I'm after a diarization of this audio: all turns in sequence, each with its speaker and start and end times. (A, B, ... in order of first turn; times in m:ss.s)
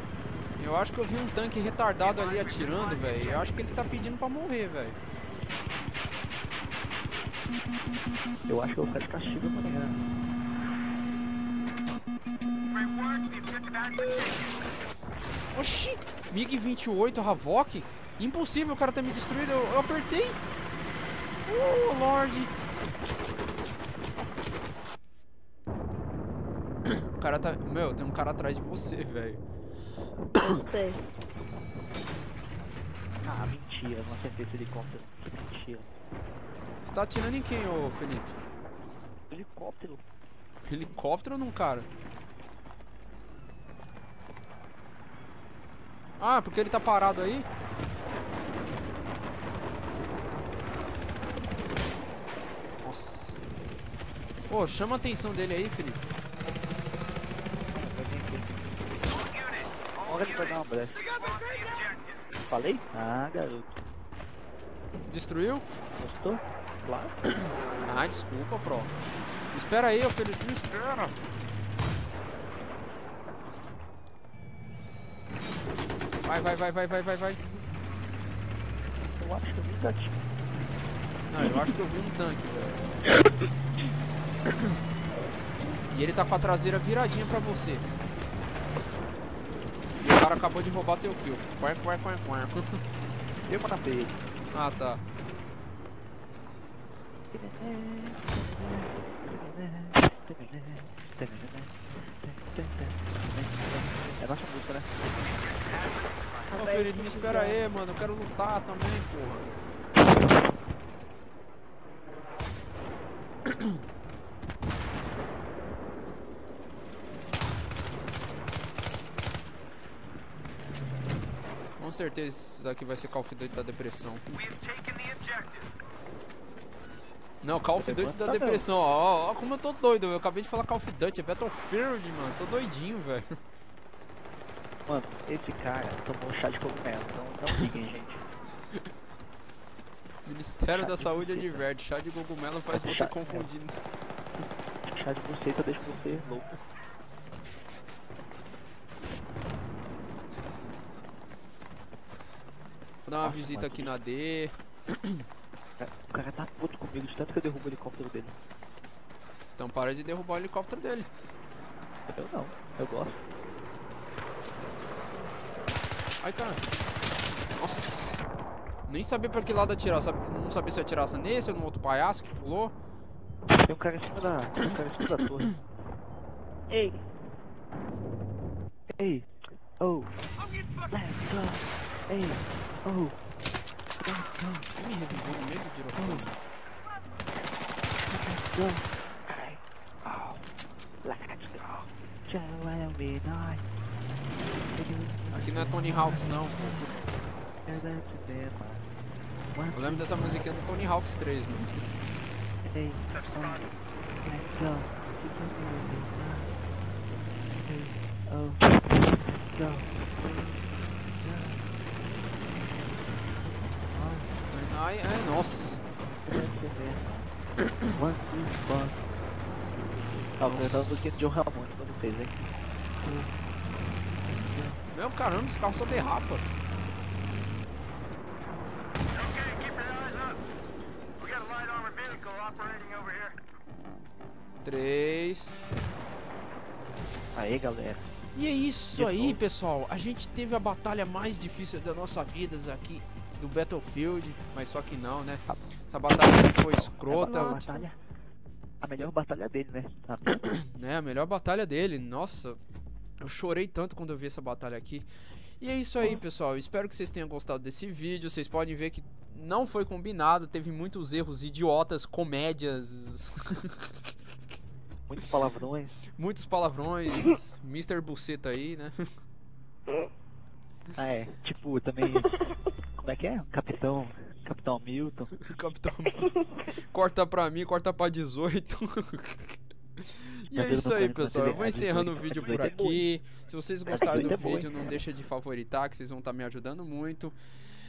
0:00.6-0:05.0 A
0:08.5-0:10.1 B
0:12.7-0:14.4 C
0:15.5-0:20.4 A
0:21.5-0:22.5 A
0:26.8-0:29.4 A
0:30.4-0:31.0 D
0:33.2-0:35.9 B
0:36.8-0:38.4 A
0:39.3-0:40.0 B
0:40.7-0:41.9 A
0:46.2-0:47.5 A
0:52.8-0:53.4 A
0:54.5-0:56.0 A
0:57.7-0:58.7 B
1:00.0-1:01.1 B
1:01.2-1:02.0 C
1:02.5-1:03.8 B
1:05.1-1:05.6 A
1:06.0-1:07.2 B
1:07.4-1:08.9 A
1:09.5-1:11.2 A
1:16.2-1:17.4 A
1:19.2-1:20.2 B
1:21.3-1:22.8 A
1:25.9-1:27.9 A
1:30.0-1:32.6 A
1:33.5-1:34.2 B
1:34.5-1:35.0 A
1:37.3-1:45.0 B
1:45.7-1:46.4 C
1:46.5-1:47.6 D
1:46.6-1:49.5 A
1:53.5-1:53.7 A
2:01.8-2:04.4 A
2:04.4-2:05.6 C
2:07.4-2:13.2 A
2:07.8-2:08.6 B
2:14.9-2:18.3 B
2:20.2-2:23.8 A
2:20.7-2:21.6 B
2:22.7-2:23.5 B
2:24.9-2:26.5 B
2:33.1-2:35.2 A
2:33.2-2:34.0 B
2:35.8-2:38.4 B
2:39.6-2:41.1 A
2:42.1-2:43.2 B
2:46.2-2:46.6 A
2:47.6-2:48.2 A
2:48.9-2:52.7 A
2:53.6-2:55.6 B
2:56.7-2:57.0 D
2:58.9-2:59.3 B
2:59.8-3:00.1 B
3:00.9-3:03.2 B
3:04.0-3:04.7 B
3:04.8-3:06.4 A
3:06.0-3:06.3 B
3:08.0-3:10.5 B
3:11.0-3:13.6 B
3:14.7-3:16.3 B
3:15.3-3:17.0 A
3:17.7-3:18.9 B
3:19.5-3:20.4 B
3:19.7-3:21.8 A
3:22.6-3:26.5 B
3:27.5-3:30.1 B
3:31.2-3:31.6 B
3:33.7-3:34.3 B
3:34.5-3:35.8 A
3:36.3-3:37.1 B
3:37.9-3:39.0 B
3:40.4-3:42.4 B
3:40.4-3:41.3 A
3:43.0-3:43.4 B
3:44.2-3:44.8 B
3:44.9-3:46.5 A
3:49.2-3:50.4 C
3:51.2-3:53.4 C
3:54.6-3:55.5 A
3:57.3-3:58.1 B
3:58.4-4:07.7 A
3:59.0-3:59.4 B
4:06.6-4:08.0 B
4:07.2-4:07.9 D
4:08.8-4:10.5 B
4:10.5-4:12.6 A
4:13.2-4:15.1 A
4:15.6-4:23.9 A
4:25.1-4:26.0 B
4:26.2-4:29.0 A
4:31.0-4:32.4 B
4:33.0-4:35.5 B
4:35.4-4:47.4 A
4:40.5-4:43.0 B
4:43.9-4:44.9 B